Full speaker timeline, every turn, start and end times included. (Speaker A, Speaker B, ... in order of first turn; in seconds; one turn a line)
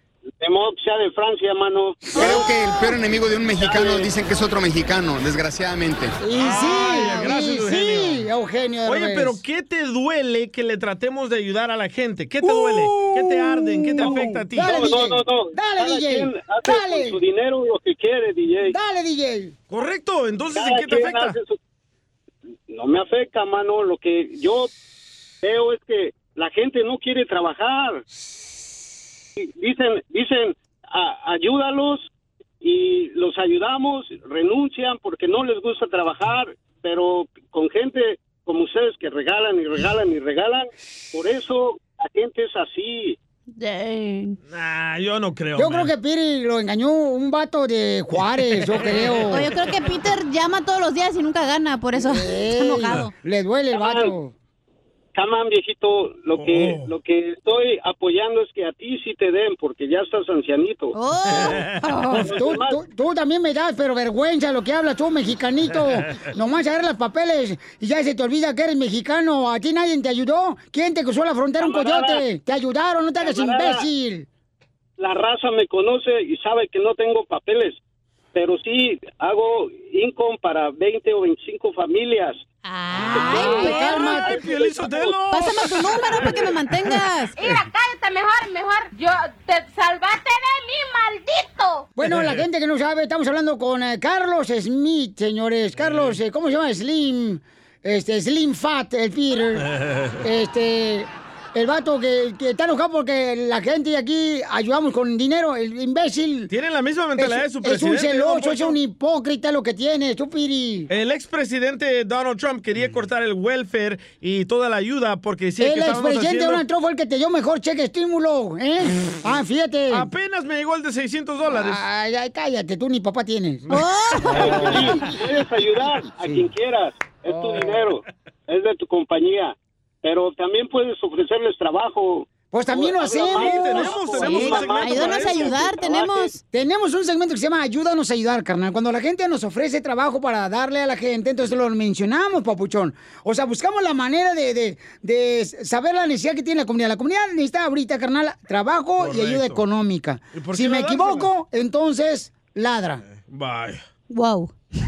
Speaker A: 0.4-2.0
Speaker B: 2.1-2.4
Speaker C: 2.1-3.0
Speaker D: 2.2-6.2
Speaker A: 3.6-4.0
Speaker B: 6.2-9.4
Speaker E: 6.3-8.2
Speaker E: 8.8-14.7
Speaker B: 12.4-17.2
Speaker A: 14.6-18.7
Speaker B: 18.6-19.5
Speaker E: 19.7-21.4
Speaker A: 20.5-21.6
Speaker A: 22.7-24.7
Speaker A: 25.4-28.0
Speaker A: 29.4-32.1
Speaker A: 32.6-43.2
Speaker C: 43.6-44.4
Speaker E: 44.5-45.9
Speaker B: 45.5-49.5
Speaker E: 48.7-49.3
Speaker C: 49.3-53.1
Speaker B: 52.0-54.3
Speaker A: 53.7-54.1
Speaker A: 55.1-61.0
Speaker E: 56.4-56.9
Speaker C: 60.9-62.4
Speaker E: 61.4-61.7
Speaker B: 62.1-74.3
Speaker A: 62.2-62.8
Speaker A: 71.6-72.2
Speaker A: 73.2-73.8
Speaker A: 75.0-77.8
Speaker A: 78.3-82.4
Speaker C: 82.6-84.3
Speaker E: 83.1-85.7
Speaker A: 83.1-83.4
Speaker B: 83.2-84.4
Speaker A: 84.2-85.1
Speaker C: 85.3-87.3
Speaker F: 87.4-91.9
Speaker B: 92.0-99.7
Speaker E: 92.0-92.4
Speaker E: 95.8-96.2
Speaker E: 99.8-100.2
Speaker B: 100.2-106.5
Speaker E: 106.5-108.8
Speaker B: 107.2-110.9
Speaker E: 110.9-116.6
Speaker B: 115.6-120.1
Speaker E: 119.9-121.8
Speaker B: 121.5-123.7
Speaker E: 123.7-124.6
Speaker C: 123.7-124.8
Speaker B: 124.2-125.2
Speaker A: 124.4-136.4
Speaker B: 126.0-126.4
Speaker B: 127.3-127.8
Speaker B: 132.5-134.2
Speaker E: 133.3-135.5
Speaker C: 134.2-136.4
Speaker B: 136.5-153.0
Speaker E: 149.0-149.6
Speaker E: 150.3-151.3
Speaker E: 153.1-153.8
Speaker C: 154.1-154.5